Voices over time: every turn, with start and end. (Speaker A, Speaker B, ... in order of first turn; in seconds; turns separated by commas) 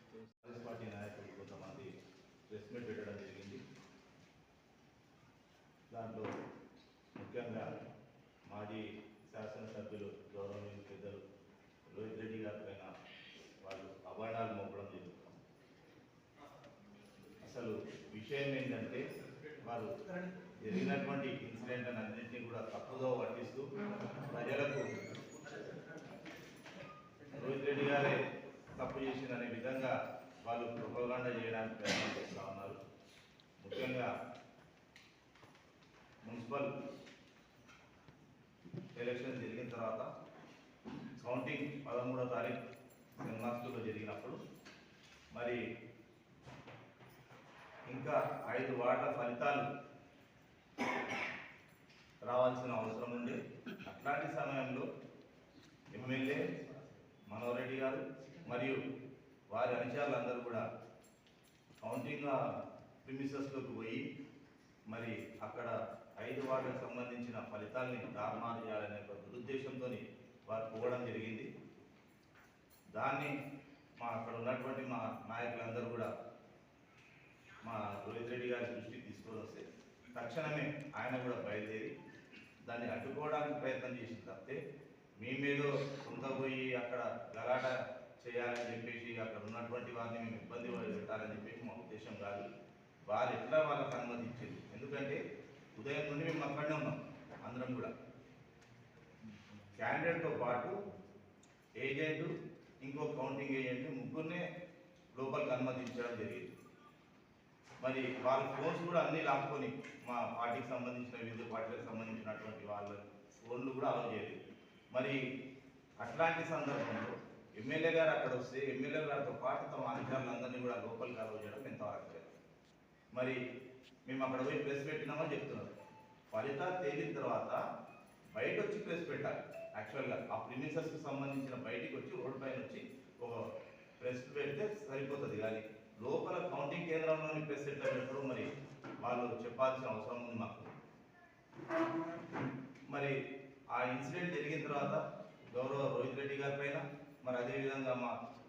Speaker A: 0.3-1.9, Speaker A: 2.5-3.6, Speaker A: 5.9-6.3, Speaker A: 7.2-7.7, Speaker A: 8.5-11.2, Speaker A: 11.9-12.9, Speaker A: 13.6-15.4, Speaker A: 17.4-19.1, Speaker A: 19.6-19.9, Speaker A: 20.5-25.0, Speaker A: 27.3-28.2, Speaker A: 28.8-32.8, Speaker A: 33.6-34.1, Speaker A: 36.2-36.7, Speaker A: 38.9-40.1, Speaker A: 41.2-42.6, Speaker A: 43.2-44.4, Speaker A: 45.3-45.6, Speaker A: 47.9-49.7, Speaker A: 52.3-54.9, Speaker A: 55.9-56.5, Speaker A: 57.3-58.8, Speaker A: 59.5-60.6, Speaker A: 61.8-62.4, Speaker A: 63.0-64.0, Speaker A: 64.9-71.5, Speaker A: 72.9-73.3, Speaker A: 74.0-76.1, Speaker A: 77.6-79.6, Speaker A: 80.1-81.9, Speaker A: 82.6-84.6, Speaker A: 85.2-92.5, Speaker A: 93.1-95.2, Speaker A: 95.7-97.9, Speaker A: 99.7-100.8, Speaker A: 101.8-104.4, Speaker A: 105.1-106.5, Speaker A: 107.8-114.4, Speaker A: 114.9-115.2, Speaker A: 116.0-122.3, Speaker A: 124.0-125.7, Speaker A: 126.3-127.6, Speaker A: 128.3-133.4, Speaker A: 134.0-138.5, Speaker A: 139.0-140.7, Speaker A: 143.7-148.2